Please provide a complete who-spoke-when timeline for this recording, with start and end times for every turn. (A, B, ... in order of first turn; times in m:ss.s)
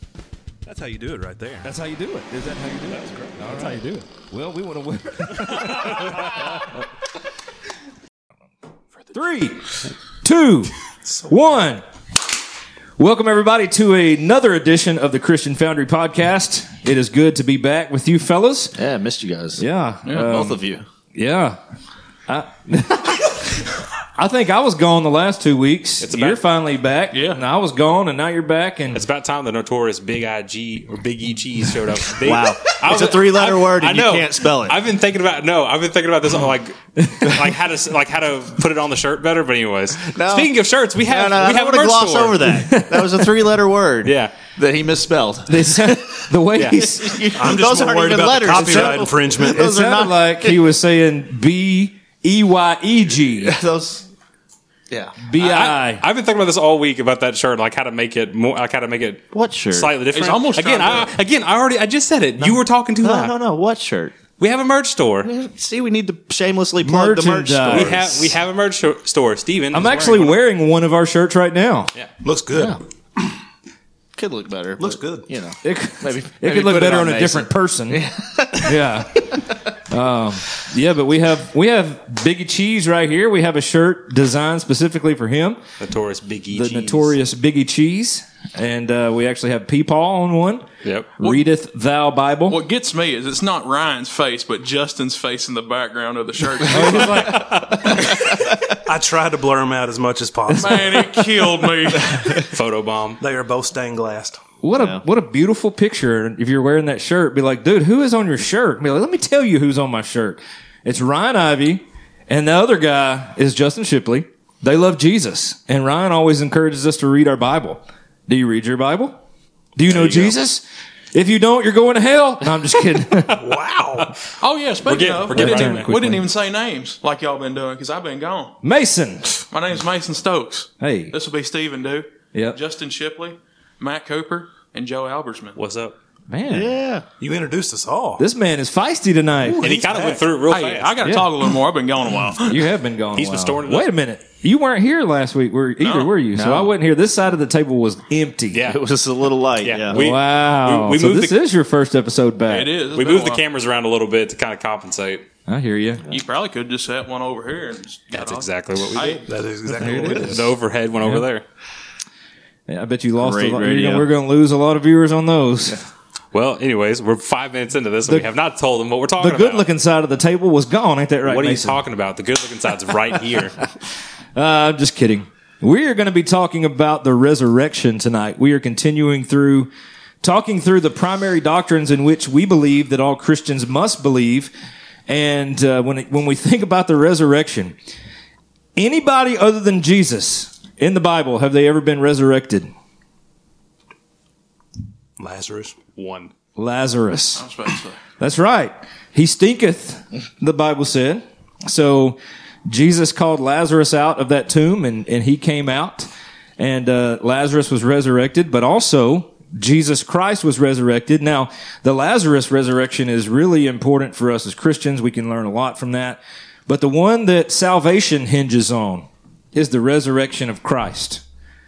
0:00.6-0:01.7 A
0:01.6-0:06.7 B
0:03.0-0:03.7 A
0:09.1-0:10.7 B
0:11.0-0:11.3 A
0:11.3-0:11.8 B
0:13.0-0:18.8 B
0:18.8-0:19.6 C
0:19.6-0:20.6 B
0:20.0-0:20.4 D
0:20.2-0:20.8 C
0:21.1-0:21.6 B
0:22.3-0:29.0 B
0:26.0-0:26.4 E
0:27.1-0:27.4 D
0:28.9-0:42.5 E
0:32.2-0:34.8 C
0:40.1-0:40.5 C
0:41.0-0:50.6 C
0:42.5-0:43.4 B
0:44.0-0:44.3 E
0:45.5-0:47.4 B
0:46.6-0:46.8 E
0:47.4-0:49.7 A
0:48.5-0:53.6 B
0:53.3-0:54.1 C
0:54.9-0:55.2 C
0:55.2-0:56.0 B
0:55.3-1:03.3 E
0:59.3-0:59.9 C
1:00.1-1:01.1 D
1:02.4-1:04.2 C
1:04.4-1:05.3 E
1:05.2-1:08.3 C
1:06.8-1:08.2 B
1:07.7-1:10.4 E
1:09.7-1:11.9 B
1:12.2-1:13.3 A
1:14.2-1:18.8 C
1:14.8-1:15.3 A
1:15.6-1:18.0 B
1:18.6-1:25.6 B
1:25.8-1:27.2 E
1:26.5-1:30.7 B
1:30.8-1:31.1 E
1:31.2-1:32.6 B
1:32.5-1:38.0 D
1:36.7-1:38.0 B
1:36.8-1:38.0 E
1:38.8-1:41.2 A
1:40.5-1:41.0 B
1:40.6-1:42.3 D
1:42.5-1:43.2 E
1:43.2-1:44.4 A
1:44.6-1:59.2 B
1:44.8-1:45.0 C
1:59.8-2:03.4 B
1:59.9-2:00.4 C
2:03.3-2:04.1 E
2:03.3-2:04.1 A
2:04.4-2:08.6 D
2:04.8-2:05.9 E
2:05.3-2:06.2 B
2:08.6-2:09.3 B
2:09.5-2:15.6 D
2:10.8-2:11.2 B
2:12.3-2:12.6 B
2:15.6-2:16.0 E
2:16.3-2:16.8 B
2:16.5-2:17.1 C
2:17.2-2:18.2 A
2:18.2-2:19.7 B
2:19.5-2:20.2 A
2:19.6-2:21.0 E
2:20.5-2:22.7 D
2:21.0-2:21.3 B
2:22.4-2:28.6 B
2:23.2-2:23.9 E
2:25.8-2:26.2 D
2:26.3-2:26.7 C
2:28.5-2:28.8 E
2:28.6-2:30.1 C
2:29.6-2:31.4 E
2:29.9-2:32.7 B
2:32.4-2:33.4 D
2:32.9-2:35.2 E
2:35.5-2:36.1 B
2:36.1-2:39.2 D
2:38.1-2:39.2 E
2:39.2-2:40.5 A
2:39.8-2:40.4 B
2:39.8-2:41.4 E
2:42.7-2:45.8 B
2:43.2-2:44.1 C
2:46.3-2:49.6 E
2:49.2-2:51.8 B
2:51.2-2:53.6 E
2:54.3-2:59.7 B
3:00.2-3:04.5 B
3:05.1-3:07.8 B
3:08.8-3:12.7 B
3:15.2-3:15.8 A
3:16.0-3:16.3 E
3:16.6-3:17.5 B
3:17.3-3:18.0 D
3:18.2-3:41.2 B